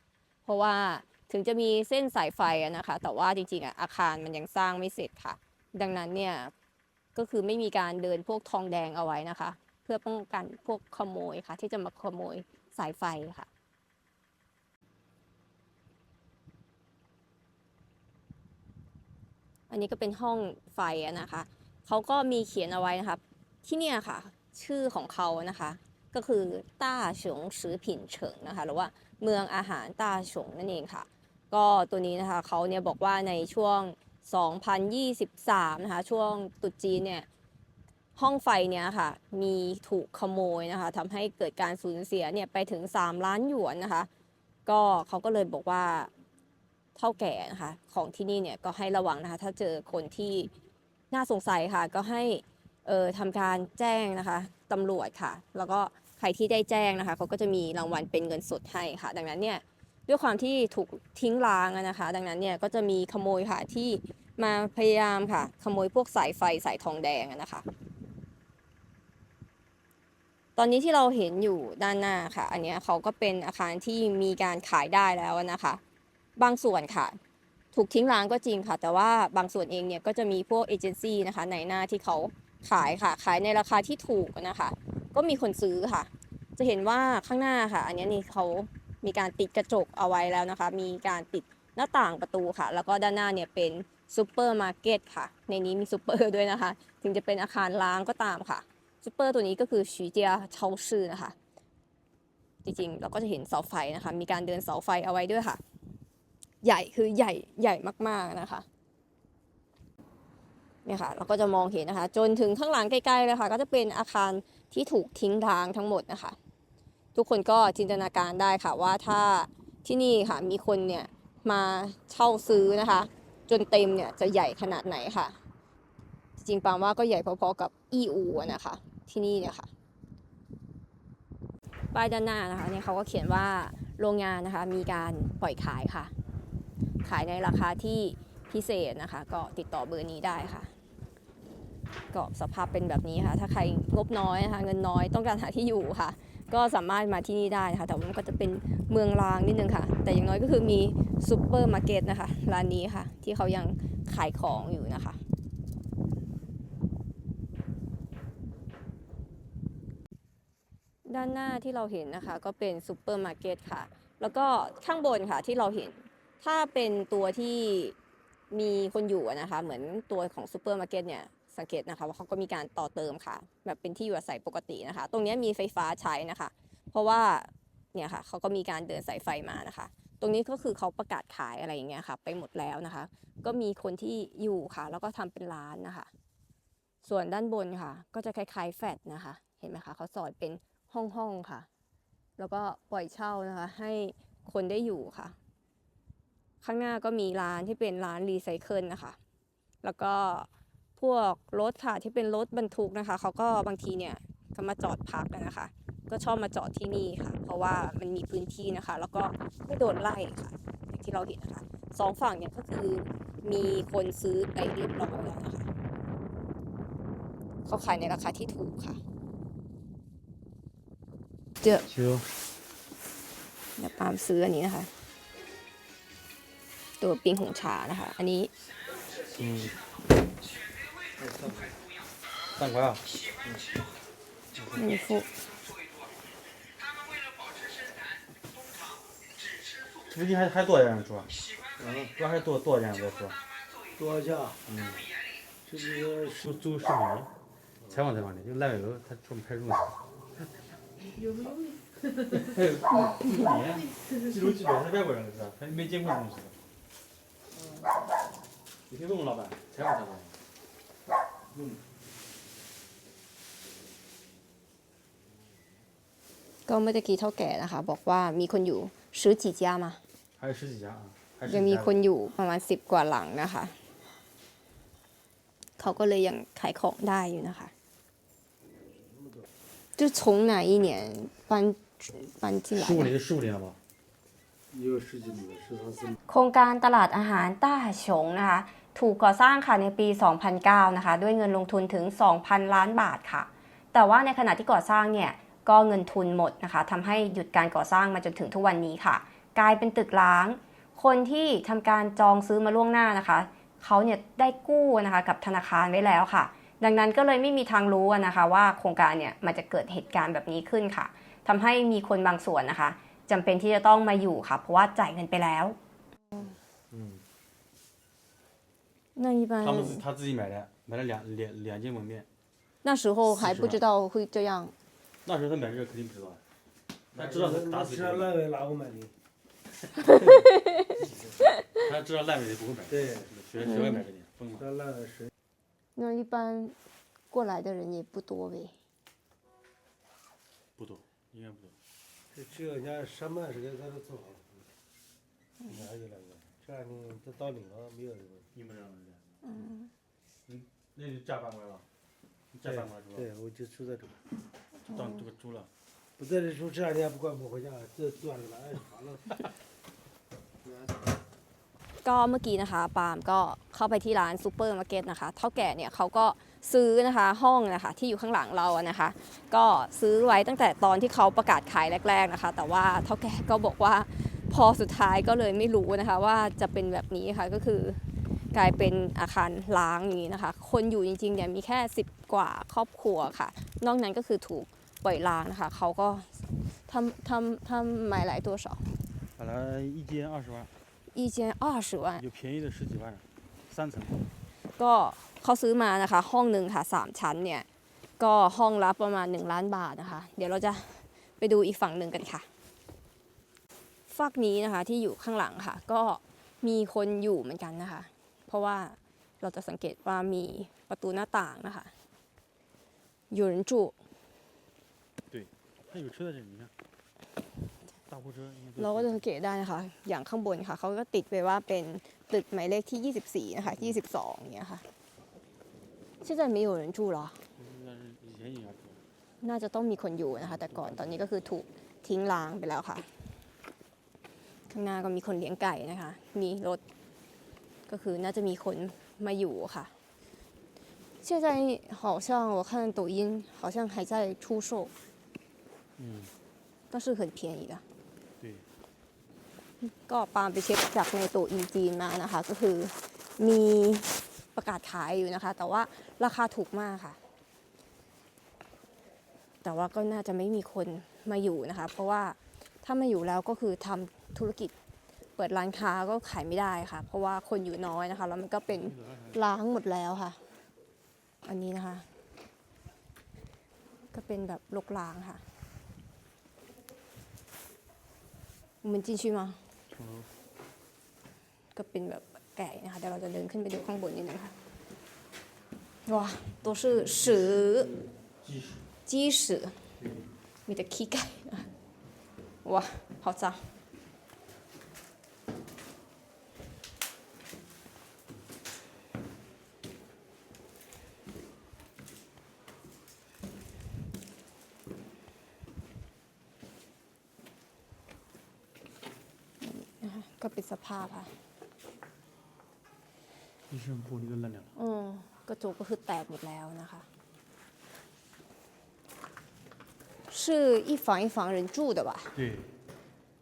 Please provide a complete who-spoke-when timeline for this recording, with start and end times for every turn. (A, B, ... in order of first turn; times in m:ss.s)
0:00.4-0:06.5 A
0:07.1-0:13.5 A
0:19.7-0:37.3 A
0:38.2-0:44.1 A
0:44.6-0:46.1 A
0:47.0-0:50.5 A
0:51.1-1:07.6 A
1:10.6-1:15.8 A
1:16.4-1:17.2 A
1:17.7-1:41.4 A
1:42.6-1:45.6 A
1:46.6-1:48.6 A
1:50.8-1:56.4 A
1:57.1-2:05.4 A
2:06.4-2:09.7 A
2:11.9-2:16.1 A
2:17.0-2:20.7 A
2:22.1-2:35.2 A
2:41.0-2:48.0 A
2:48.5-3:06.1 A
3:07.0-3:11.7 A
3:12.4-3:15.4 A
3:16.6-3:19.2 A
3:19.8-3:35.7 A
3:37.6-3:39.0 A
3:41.8-3:42.3 B
3:43.8-3:44.9 A
3:47.0-3:48.5 A
3:49.3-3:49.7 B
3:51.2-3:51.7 C
3:52.6-3:53.0 B
3:54.7-3:55.3 A
4:00.1-4:01.3 B
4:01.8-4:02.1 C
4:02.2-4:03.4 B
4:04.0-4:04.6 C
4:04.7-4:05.0 B
4:05.6-4:06.4 C
4:06.4-4:07.3 B
4:07.9-4:10.0 B
4:12.3-4:16.5 B
4:18.9-4:20.4 B
4:21.5-4:21.8 B
4:26.7-4:30.0 A
4:30.4-4:32.0 B
4:31.5-4:33.8 A
4:35.8-4:37.7 A
4:39.0-4:39.4 C
4:40.0-4:43.1 A
4:42.7-4:43.8 B
4:44.7-4:46.2 C
4:46.3-5:15.8 A
5:16.9-5:17.2 B
5:19.2-5:20.0 A
5:19.6-5:22.2 B
5:22.8-5:24.7 A
5:23.3-5:23.8 B
5:25.2-5:26.4 B
5:27.1-5:28.3 B
5:27.1-5:29.1 C
5:30.4-5:30.8 A
5:30.9-5:31.5 C
5:31.7-5:34.6 B
5:32.9-5:33.3 C
5:33.6-5:34.0 A
5:34.6-5:35.3 C
5:36.0-5:36.8 A
5:37.3-5:38.7 A
5:40.8-5:41.7 B
5:42.3-5:44.7 C
5:45.6-5:48.5 C
5:48.5-5:49.3 B
5:49.4-5:49.9 A
5:50.5-5:51.8 B
5:52.5-5:53.3 B
5:52.6-5:54.2 C
5:54.8-5:55.7 B
5:54.9-5:55.2 A
5:56.2-5:59.5 C
6:00.6-6:01.1 C
6:02.0-6:18.0 A
6:18.5-6:29.0 A
6:29.4-6:30.7 B
6:31.1-6:32.2 A
6:32.2-6:34.2 B
6:34.8-6:37.7 A
6:38.2-6:42.5 A
6:44.1-6:51.9 A
6:53.3-6:54.0 A
6:55.3-6:56.7 B
6:58.1-6:59.2 B
6:58.8-7:04.8 A
7:03.7-7:04.0 B
7:06.2-7:07.4 A
7:07.6-7:09.0 B
7:09.4-7:13.1 A
7:10.5-7:11.2 B
7:14.7-7:16.8 A
7:17.9-7:19.9 A
7:21.2-7:24.9 A
7:26.0-7:26.3 B
7:26.9-7:27.8 A
7:28.4-7:28.6 B
7:29.8-7:37.2 A
7:39.6-7:44.7 A
7:45.4-7:50.4 A
7:48.7-7:49.4 B
7:51.4-7:52.1 A
7:54.1-7:55.4 A
7:58.8-7:59.6 A
7:59.9-8:00.3 B
8:01.7-8:04.5 A
8:06.0-8:08.0 A
8:06.6-8:08.8 B
8:09.1-8:09.8 A
8:10.0-8:10.2 B
8:10.7-8:11.7 A
8:12.6-8:13.6 A
8:29.6-8:31.3 A
8:33.7-8:34.7 B
8:34.8-8:37.0 A
8:40.3-8:42.3 A
8:42.3-8:42.7 B